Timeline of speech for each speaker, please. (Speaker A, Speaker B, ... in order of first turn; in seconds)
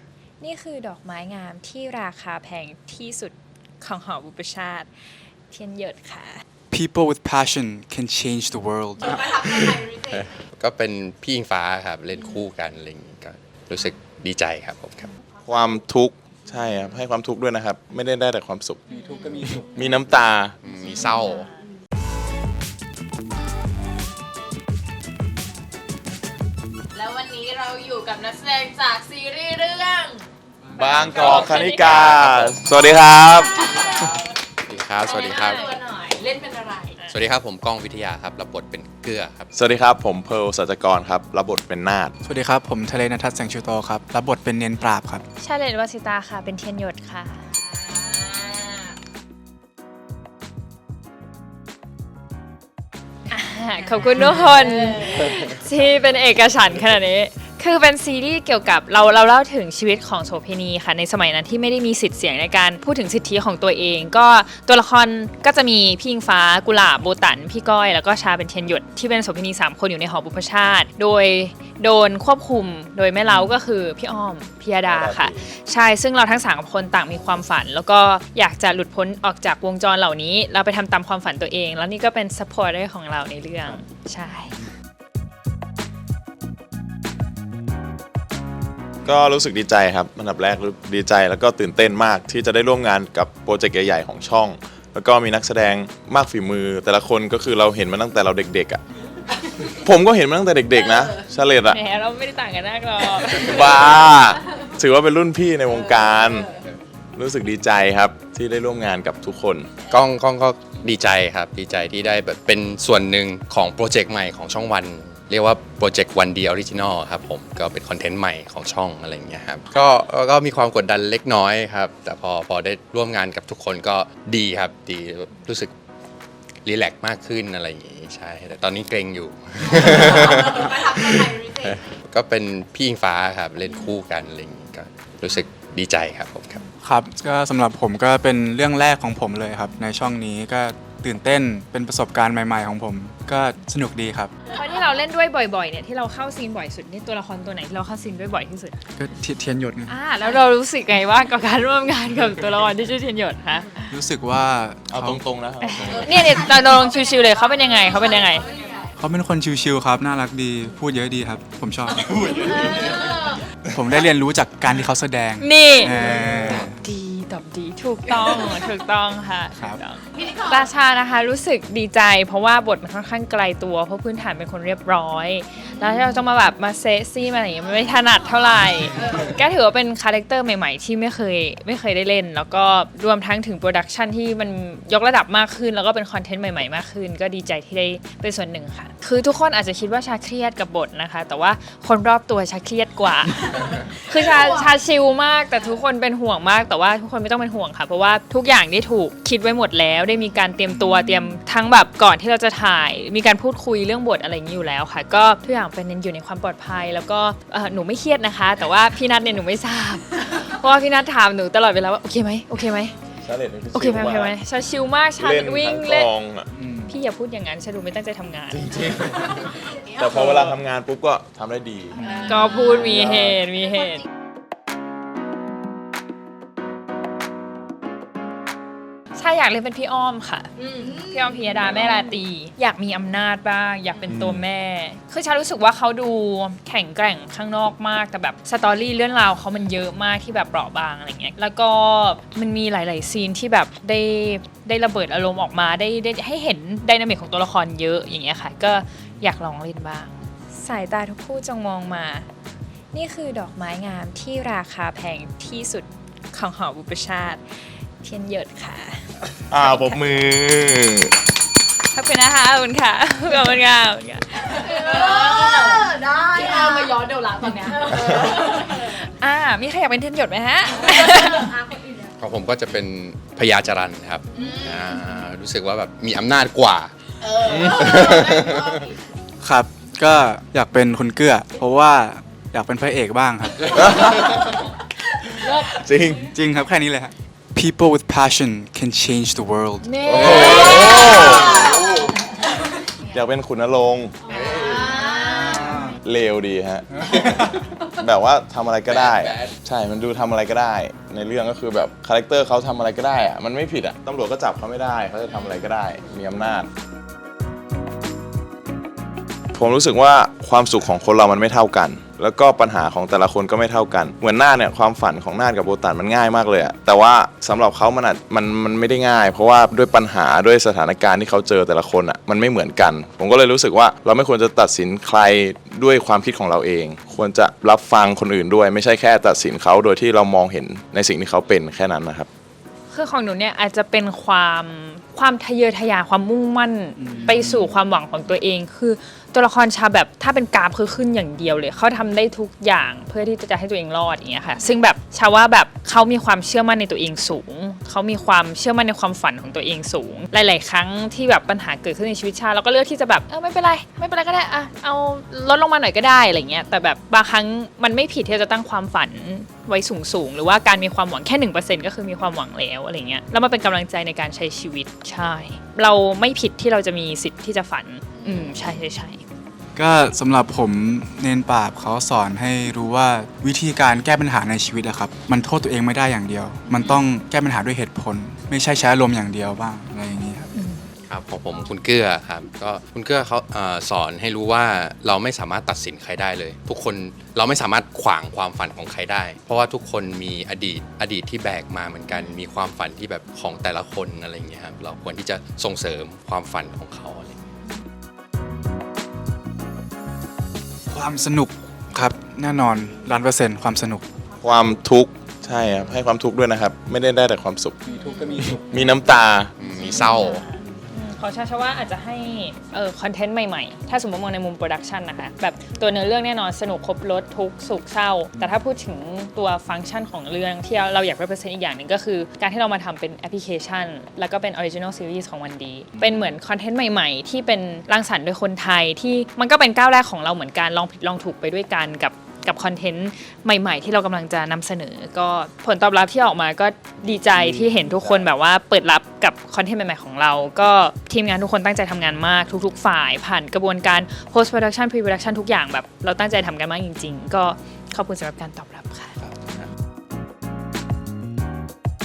Speaker A: 0.4-4.9, 5.5-6.4, 31.0-32.2, 35.4-35.7, 45.4-47.5, 53.3-84.5, 101.7-103.8, 144.5-148.8, 149.9-153.9, 155.6-158.5, 165.4-212.9, 213.7-216.1, 216.9-218.7, 222.2-224.0, 229.1-252.3, 252.9-260.0, 261.9-266.9, 267.8-271.5, 332.9-369.2, 380.5-380.9, 407.9-408.5, 409.8-449.2
Speaker B: 6.7-9.8, 18.9-19.6, 30.7-31.5, 42.2-45.2, 136.8-144.3, 148.9-149.9, 153.9-155.2, 159.0-162.4, 163.7-166.8, 216.5-216.9, 222.0-222.5, 279.4-283.8, 286.2-290.6, 295.4-295.9, 337.0-337.7, 369.8-380.5, 400.9-404.0, 407.9-408.6
Speaker C: 9.1-10.2, 26.9-30.2, 33.6-34.1, 35.1-36.9, 47.6-48.8, 129.8-131.8, 157.8-158.9, 162.6-163.4, 222.1-222.7, 264.7-268.8, 271.5-272.0, 274.4-274.7, 277.3-278.9, 289.9-291.9, 294.5-295.8
Speaker D: 10.1-15.1, 20.6-21.5, 31.3-32.8, 34.7-35.6, 37.1-39.5, 109.8-125.7, 126.6-136.7, 272.2-276.9, 277.6-278.9, 290.1-291.0, 294.4-294.7, 298.9-299.5, 381.1-397.4, 409.6-410.4, 449.2-449.6
Speaker E: 15.4-18.9, 19.7-20.6, 30.7-33.6, 39.5-42.1, 74.8-75.4, 89.0-98.8, 99.7-101.8, 103.4-106.5, 107.2-109.7, 154.9-156.4, 162.2-162.9, 213.2-214.3, 215.2-216.5, 218.5-222.2, 222.7-223.4, 234.1-234.4, 259.5-261.1, 277.4-277.9, 283.7-284.5, 285.4-286.3, 290.1-291.8, 293.1-294.2, 295.8-306.7, 309.5-332.3, 404.4-407.8, 408.4-410.0, 437.2-438.3